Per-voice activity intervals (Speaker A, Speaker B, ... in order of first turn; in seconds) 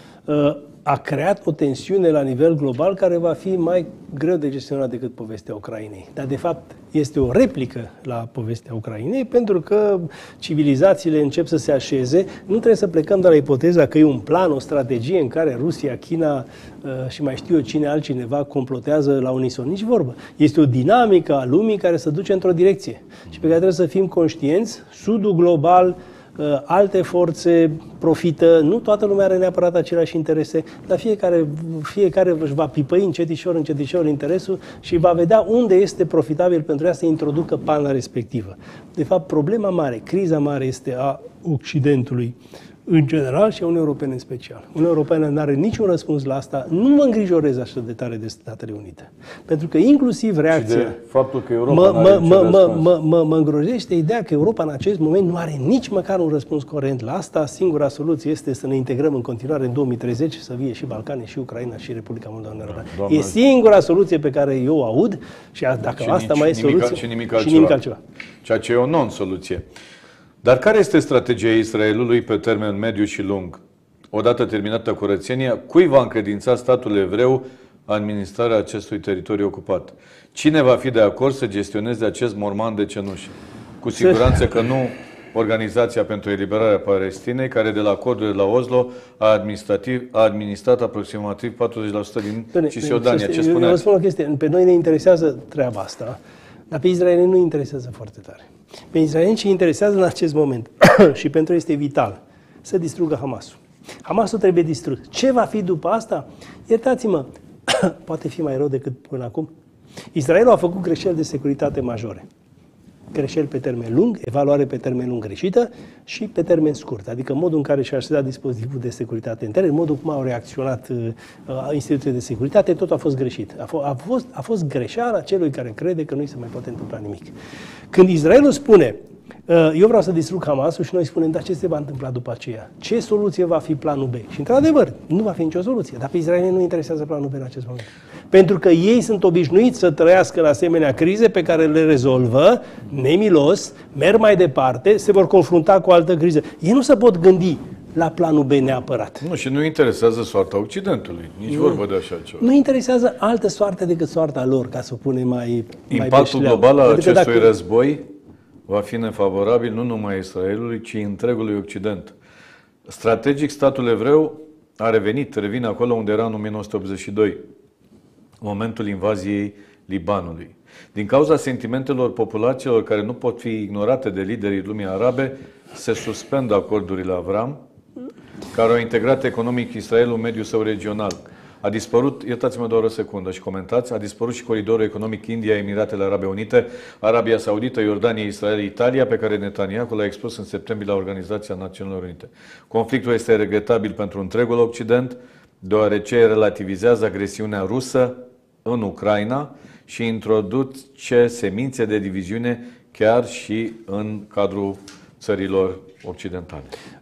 Speaker A: 0.3-42.4, 42.9-51.0, 51.7-68.0, 84.0-84.3, 92.5-96.2, 96.7-109.5, 110.1-112.3, 113.1-127.3, 127.9-149.2, 151.5-151.8, 152.4-157.5
Speaker B: 50.5-52.9, 62.7-63.4, 66.0-67.8, 68.4-69.7, 70.4-73.6, 74.1-93.8, 149.2-152.4, 155.9-158.0, 158.7-162.2, 162.9-167.4, 168.4-177.6, 178.5-206.7